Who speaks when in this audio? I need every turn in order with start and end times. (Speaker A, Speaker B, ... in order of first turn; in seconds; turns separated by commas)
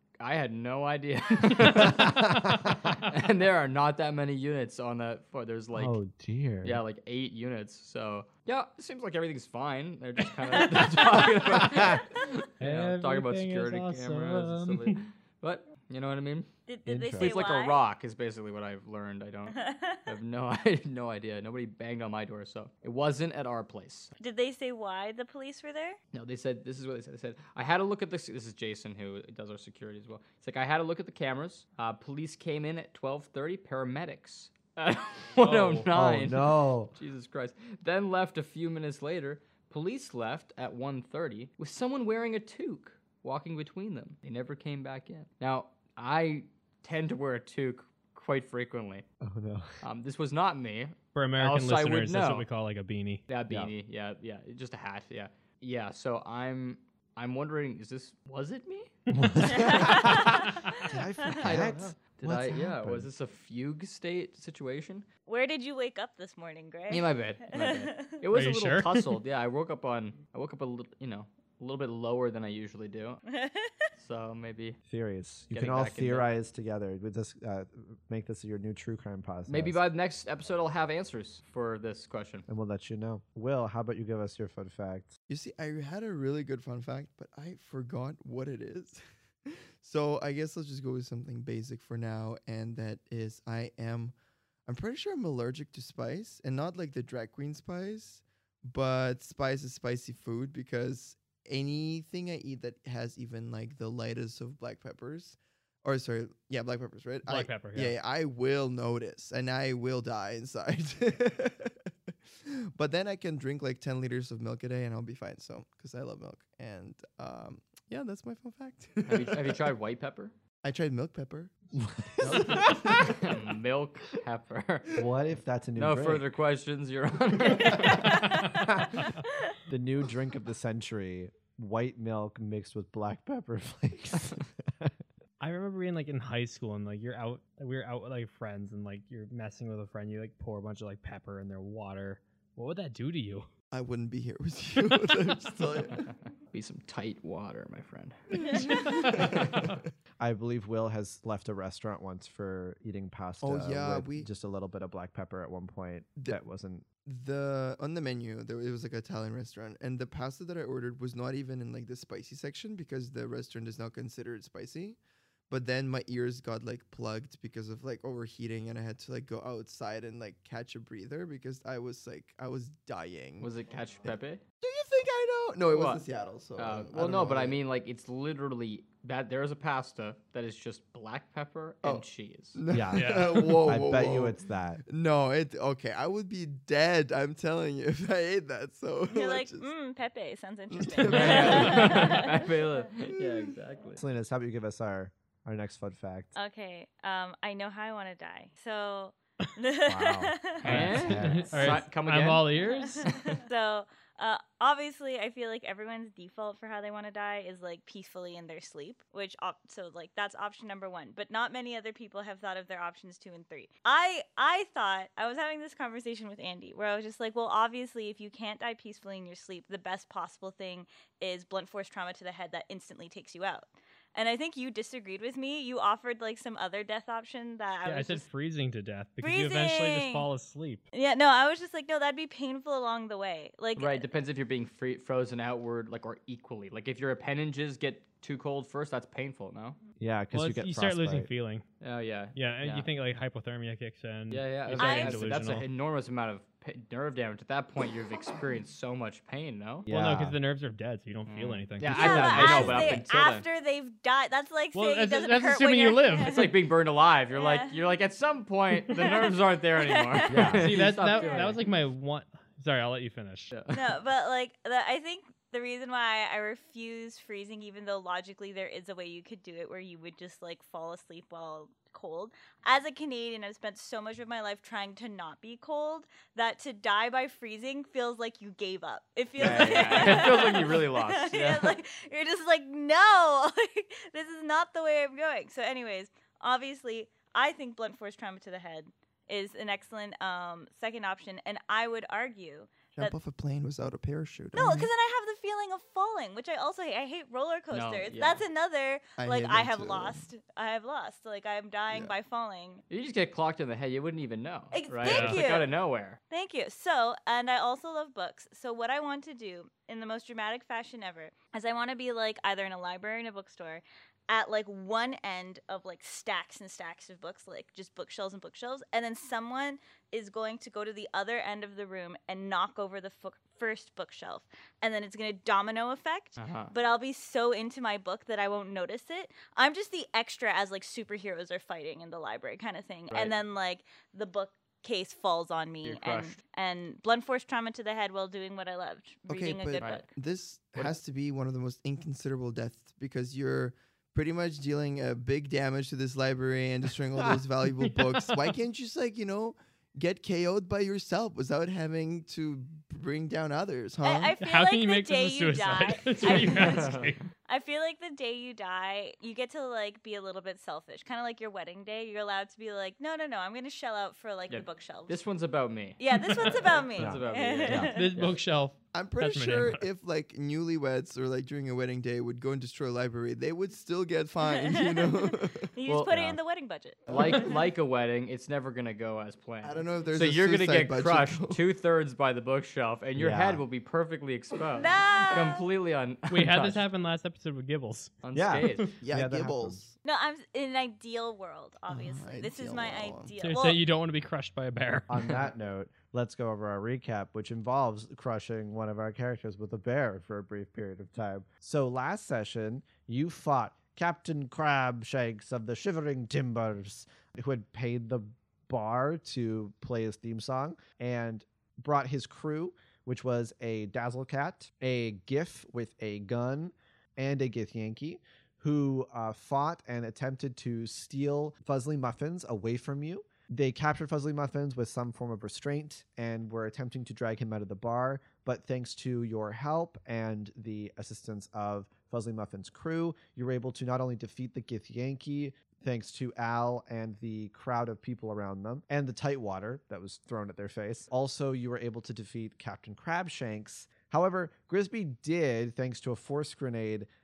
Speaker A: 0.2-5.9, Speaker B: 1.8-2.9, Speaker C: 2.9-3.2, Speaker B: 5.8-6.8, Speaker A: 6.6-16.5, Speaker D: 10.5-11.3, Speaker C: 10.8-12.0, Speaker B: 11.6-12.0, Speaker C: 12.6-15.0, Speaker D: 16.7-17.8, Speaker B: 16.9-17.4, Speaker A: 17.2-24.1, Speaker D: 19.5-20.1, Speaker D: 24.2-26.0, Speaker A: 26.1-49.0, Speaker B: 35.4-36.9, Speaker B: 49.2-49.7, Speaker A: 49.8-52.5, Speaker C: 51.1-53.2, Speaker A: 53.3-58.9, Speaker C: 59.1-60.9, Speaker B: 59.1-63.1, Speaker D: 59.5-61.5, Speaker A: 59.8-60.3, Speaker A: 61.2-65.0, Speaker D: 65.3-68.2, Speaker A: 66.9-73.2, Speaker C: 68.3-69.2, Speaker D: 73.3-73.7, Speaker A: 74.0-74.8, Speaker B: 74.9-79.8, Speaker A: 75.5-76.3, Speaker A: 79.5-82.5, Speaker B: 82.5-85.1, Speaker E: 85.3-94.1, Speaker E: 94.7-119.7, Speaker C: 107.3-108.0, Speaker A: 119.0-120.3, Speaker E: 120.6-121.5, Speaker B: 121.8-123.0, Speaker E: 122.2-123.2, Speaker A: 122.2-125.0, Speaker B: 125.0-126.2, Speaker A: 125.8-128.2, Speaker D: 127.4-129.5, Speaker C: 128.1-128.4, Speaker B: 129.7-134.9, Speaker C: 135.4-143.5, Speaker E: 143.7-146.0, Speaker A: 145.9-149.4, Speaker E: 148.3-149.8, Speaker B: 150.2-156.8, Speaker E: 153.4-154.3, Speaker E: 157.0-165.0, Speaker E: 165.5-173.5, Speaker A: 173.4-174.4, Speaker E: 174.0-177.6, Speaker A: 175.7-176.0, Speaker A: 176.6-182.6, Speaker E: 181.8-189.7, Speaker B: 182.7-184.8, Speaker C: 182.9-183.4, Speaker D: 189.1-192.7, Speaker E: 190.7-192.2, Speaker A: 191.1-194.0, Speaker C: 191.1-192.1, Speaker E: 193.2-193.5, Speaker B: 194.0-196.3, Speaker D: 196.3-201.0, Speaker B: 199.8-201.8, Speaker A: 200.6-202.5, Speaker C: 200.7-203.4, Speaker D: 202.5-228.2, Speaker C: 227.8-230.8, Speaker D: 229.2-230.3, Speaker D: 230.9-234.1, Speaker A: 233.8-239.8, Speaker B: 240.0-241.3, Speaker C: 240.3-241.6, Speaker A: 241.8-242.9, Speaker C: 242.3-245.7, Speaker A: 244.3-249.9, Speaker D: 244.8-245.2, Speaker C: 249.8-253.0, Speaker B: 249.9-250.4, Speaker A: 251.3-253.4, Speaker D: 251.9-256.4, Speaker C: 254.7-256.5, Speaker A: 256.2-261.6, Speaker D: 257.3-257.8, Speaker D: 258.8-261.7, Speaker B: 260.3-260.7, Speaker C: 260.5-263.5, Speaker A: 263.5-263.8, Speaker D: 263.7-293.1, Speaker B: 279.4-280.3, Speaker A: 279.4-281.8, Speaker E: 292.9-294.9, Speaker D: 294.6-302.8, Speaker A: 297.7-298.4, Speaker E: 299.2-300.3, Speaker E: 301.9-302.1, Speaker A: 302.9-306.2, Speaker D: 304.7-305.7, Speaker C: 305.0-305.4, Speaker D: 306.3-340.1, Speaker A: 326.4-326.7, Speaker A: 333.1-333.3, Speaker A: 335.8-336.4, Speaker E: 339.3-354.3, Speaker A: 339.8-340.1, Speaker C: 347.8-348.4, Speaker D: 354.0-365.2, Speaker C: 354.4-357.2, Speaker A: 356.2-357.1, Speaker A: 364.5-368.4, Speaker D: 366.0-368.1, Speaker B: 367.0-367.9, Speaker C: 367.9-369.8, Speaker E: 368.9-375.7, Speaker D: 374.6-377.5, Speaker B: 375.9-376.4, Speaker E: 377.1-377.5, Speaker A: 377.1-386.8, Speaker E: 379.6-381.6, Speaker B: 383.1-383.6, Speaker D: 384.8-385.6, Speaker C: 386.3-388.2, Speaker A: 388.2-388.8, Speaker B: 388.3-389.8, Speaker E: 389.0-389.9, Speaker D: 390.0-393.8, Speaker E: 391.9-393.3, Speaker C: 393.4-395.5, Speaker B: 395.1-447.1